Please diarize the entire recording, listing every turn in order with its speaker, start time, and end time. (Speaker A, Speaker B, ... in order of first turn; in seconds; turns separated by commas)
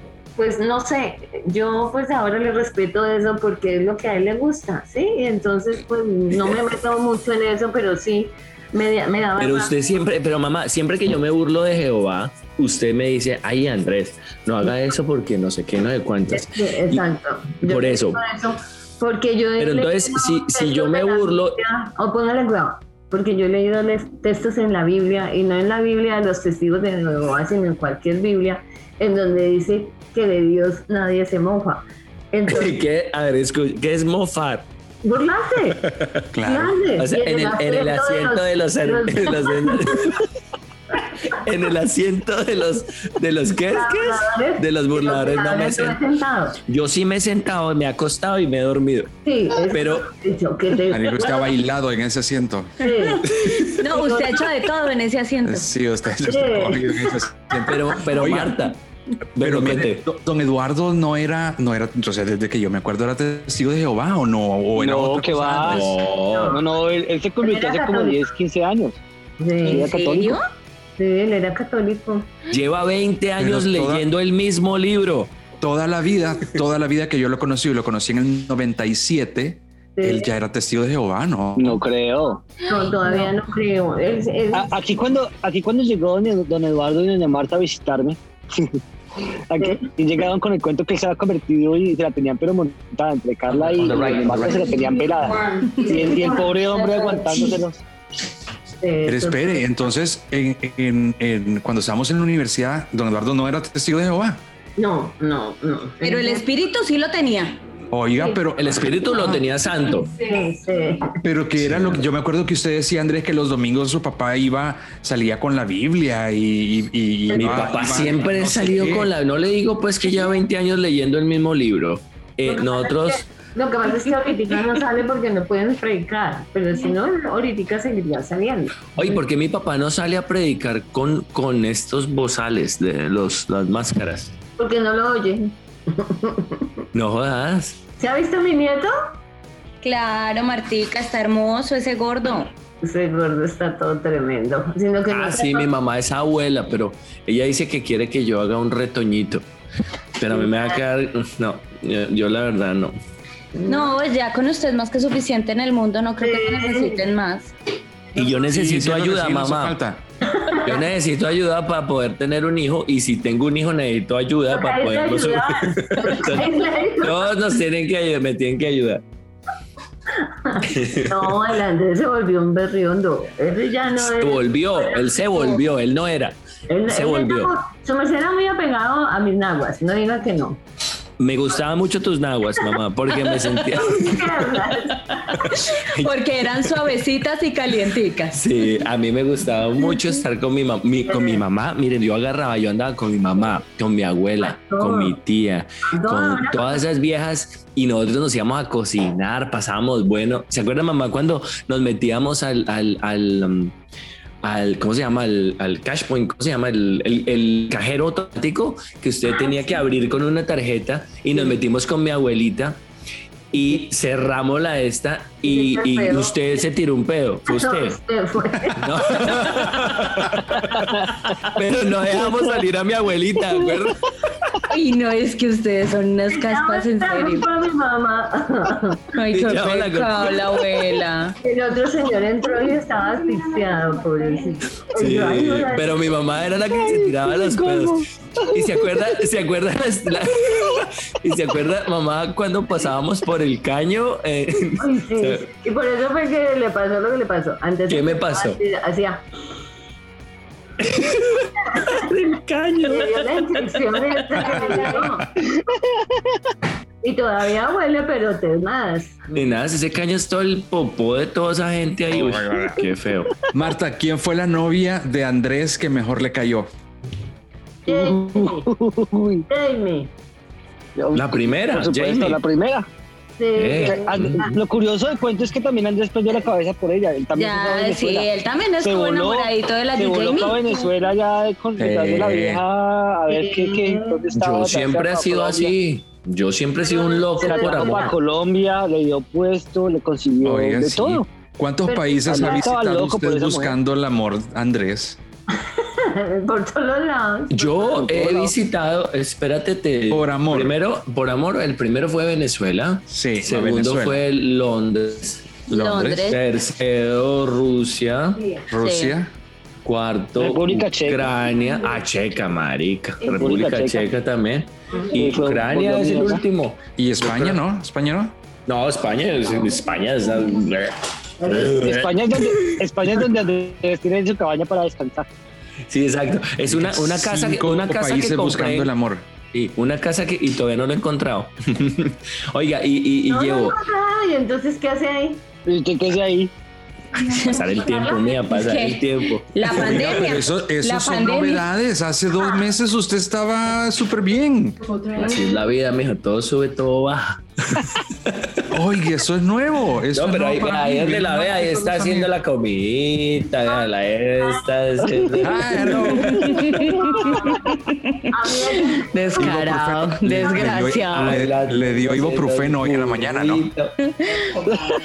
Speaker A: 0.4-9.7, Speaker B: 9.4-17.0, Speaker A: 16.3-32.8, Speaker B: 17.6-18.2, Speaker B: 19.6-21.6, Speaker B: 32.5-34.7, Speaker A: 35.0-35.8, Speaker B: 35.8-36.2, Speaker C: 36.3-36.8, Speaker A: 36.4-40.2, Speaker B: 37.0-40.2, Speaker B: 41.2-46.0, Speaker A: 43.7-46.6, Speaker B: 46.7-49.1, Speaker A: 49.2-51.5, Speaker B: 49.7-50.1, Speaker C: 50.9-53.7, Speaker A: 52.8-54.5, Speaker D: 53.7-55.7, Speaker C: 55.5-58.6, Speaker A: 56.2-57.2, Speaker B: 57.7-58.8, Speaker B: 59.4-60.0, Speaker C: 59.4-66.0, Speaker E: 64.8-65.9, Speaker B: 65.7-66.6, Speaker A: 66.3-66.6, Speaker E: 66.5-69.0, Speaker A: 67.4-68.2, Speaker A: 69.4-69.9, Speaker E: 69.7-70.4, Speaker D: 69.7-70.4, Speaker A: 71.0-72.3, Speaker B: 72.5-75.3, Speaker C: 73.4-74.0, Speaker C: 75.6-81.8, Speaker A: 80.0-80.3, Speaker E: 81.6-82.4, Speaker A: 82.6-84.7, Speaker E: 84.5-88.8, Speaker E: 89.5-97.8, Speaker B: 93.5-95.3, Speaker A: 94.7-97.6, Speaker A: 98.8-99.7, Speaker C: 99.1-104.4, Speaker A: 104.8-106.4, Speaker D: 106.0-107.6, Speaker C: 107.9-109.4, Speaker B: 108.6-110.1, Speaker A: 110.2-111.2, Speaker C: 111.2-119.1, Speaker B: 111.6-112.0, Speaker A: 117.3-117.8, Speaker B: 117.3-123.2, Speaker A: 122.5-128.9, Speaker B: 129.0-134.3, Speaker A: 134.6-136.7, Speaker B: 136.9-137.8, Speaker A: 138.0-138.9, Speaker D: 139.8-142.5, Speaker A: 142.8-145.7, Speaker B: 145.1-149.5, Speaker B: 150.2-153.0, Speaker A: 150.3-150.8, Speaker A: 153.6-153.9, Speaker D: 153.7-157.5, Speaker A: 156.2-157.0, Speaker B: 158.2-159.8, Speaker C: 158.5-160.0, Speaker A: 160.3-160.8, Speaker B: 160.6-166.5, Speaker A: 164.5-167.3, Speaker B: 167.0-169.0, Speaker A: 170.3-175.6, Speaker B: 170.7-171.3, Speaker B: 174.0-176.4, Speaker A: 176.7-180.6, Speaker B: 176.9-177.5, Speaker B: 181.2-184.7, Speaker A: 183.8-185.5, Speaker B: 185.3-186.1, Speaker D: 185.5-188.4, Speaker B: 188.3-203.8, Speaker A: 191.1-191.4, Speaker A: 194.4-195.2, Speaker A: 195.9-196.8, Speaker B: 204.4-212.8, Speaker B: 213.5-218.0, Speaker A: 215.4-216.4, Speaker A: 217.5-218.8, Speaker B: 218.8-224.5, Speaker C: 218.9-220.5, Speaker D: 224.7-227.5, Speaker A: 226.3-229.2, Speaker D: 229.2-231.4, Speaker B: 229.3-230.5, Speaker A: 231.4-236.1, Speaker B: 235.0-245.4, Speaker E: 236.8-238.6, Speaker A: 244.8-249.2, Speaker B: 247.9-248.6, Speaker B: 250.8-254.7, Speaker A: 251.7-252.1, Speaker A: 252.8-255.3, Speaker C: 254.4-255.2, Speaker A: 257.0-259.5, Speaker B: 259.3-263.3, Speaker C: 262.1-262.9, Speaker C: 263.5-266.7, Speaker A: 267.9-268.7, Speaker E: 267.9-269.5, Speaker A: 269.5-270.1, Speaker E: 271.0-272.9, Speaker B: 271.1-272.4, Speaker A: 273.4-274.6, Speaker B: 273.6-274.5, Speaker E: 273.8-278.3, Speaker D: 277.3-280.9, Speaker E: 278.8-285.7, Speaker C: 281.8-282.6, Speaker A: 283.3-284.3, Speaker B: 284.3-288.1, Speaker A: 286.8-288.2, Speaker E: 287.4-291.3, Speaker C: 290.4-295.2, Speaker A: 291.9-292.6, Speaker E: 292.3-293.8, Speaker A: 295.8-298.1, Speaker B: 297.5-305.6, Speaker E: 297.9-298.5, Speaker C: 300.1-300.8, Speaker C: 303.1-304.2, Speaker D: 305.7-306.4, Speaker C: 305.7-306.4, Speaker B: 306.3-308.4, Speaker A: 308.4-308.6, Speaker C: 308.7-309.3, Speaker D: 308.8-309.2, Speaker B: 309.9-317.6, Speaker E: 310.4-311.3, Speaker E: 313.4-314.1, Speaker E: 315.1-316.4, Speaker C: 317.0-318.4, Speaker B: 318.7-322.8, Speaker A: 321.4-321.7, Speaker E: 321.6-325.3, Speaker B: 325.9-328.9, Speaker C: 326.7-329.3, Speaker B: 329.5-333.8, Speaker A: 333.3-335.4, Speaker E: 335.7-336.5, Speaker D: 337.2-337.7, Speaker B: 337.3-340.2, Speaker A: 337.8-338.4, Speaker D: 338.5-341.6, Speaker C: 339.7-344.8, Speaker B: 345.1-348.7, Speaker C: 348.7-352.3, Speaker B: 350.1-356.4, Speaker A: 354.4-357.8, Speaker C: 355.4-356.9, Speaker D: 356.1-361.4, Speaker A: 358.3-359.5, Speaker C: 359.4-363.7, Speaker B: 361.2-363.9, Speaker D: 364.0-364.6